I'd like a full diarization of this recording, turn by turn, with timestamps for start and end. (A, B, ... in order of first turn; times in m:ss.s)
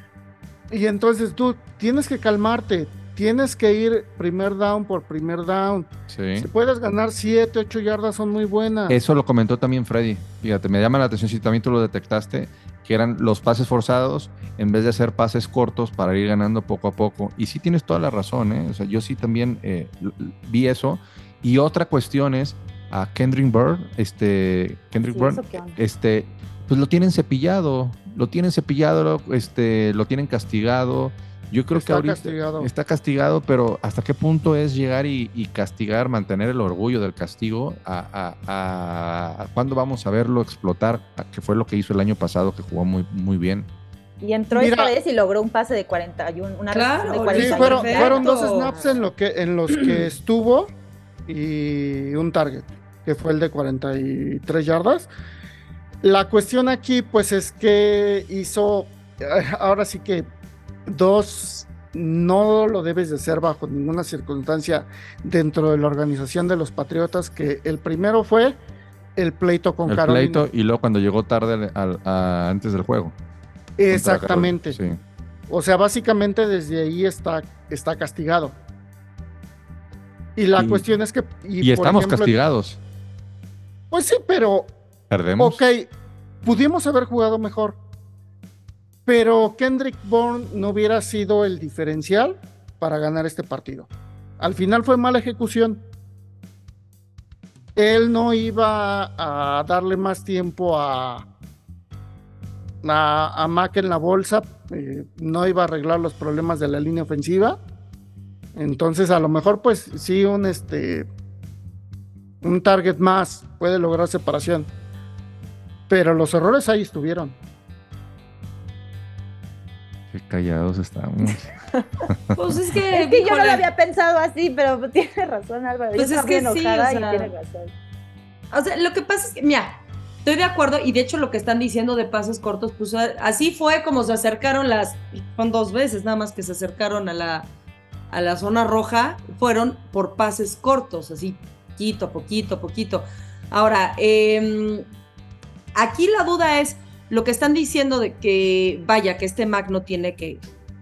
0:00.7-0:09.0 A
0:06.1-0:06.5 B
0:08.9-0:43.7 B
0:25.1-0:25.8 C
0:31.7-0:32.7 A
0:44.2-0:48.8 C
0:44.5-0:44.9 A
0:46.7-0:48.8 D
0:47.3-0:50.7 A
0:51.3-0:55.1 A
0:56.0-1:00.3 A
1:00.9-1:08.6 A
1:09.2-1:10.5 A
1:09.9-1:13.2 B
1:13.8-1:14.8 A
1:13.9-1:15.0 B
1:15.5-1:18.6 A
1:20.4-1:22.3 A
1:20.6-1:20.9 B
1:21.6-1:22.8 B
1:23.9-1:24.7 A
1:25.1-1:25.6 B
1:25.4-1:25.9 A
1:26.4-1:27.8 A
1:29.1-1:35.8 A
1:37.8-1:41.3 A
1:42.8-1:47.6 A
1:48.6-1:51.1 A
1:52.4-1:54.7 A
1:55.9-1:57.4 A
2:00.1-2:01.5 B
2:01.7-2:02.0 C
2:02.1-2:02.3 B
2:02.4-2:03.6 D
2:02.9-2:07.7 C
2:06.0-2:07.3 D
2:08.5-2:17.5 D
2:18.1-2:24.9 D
2:25.8-2:30.4 D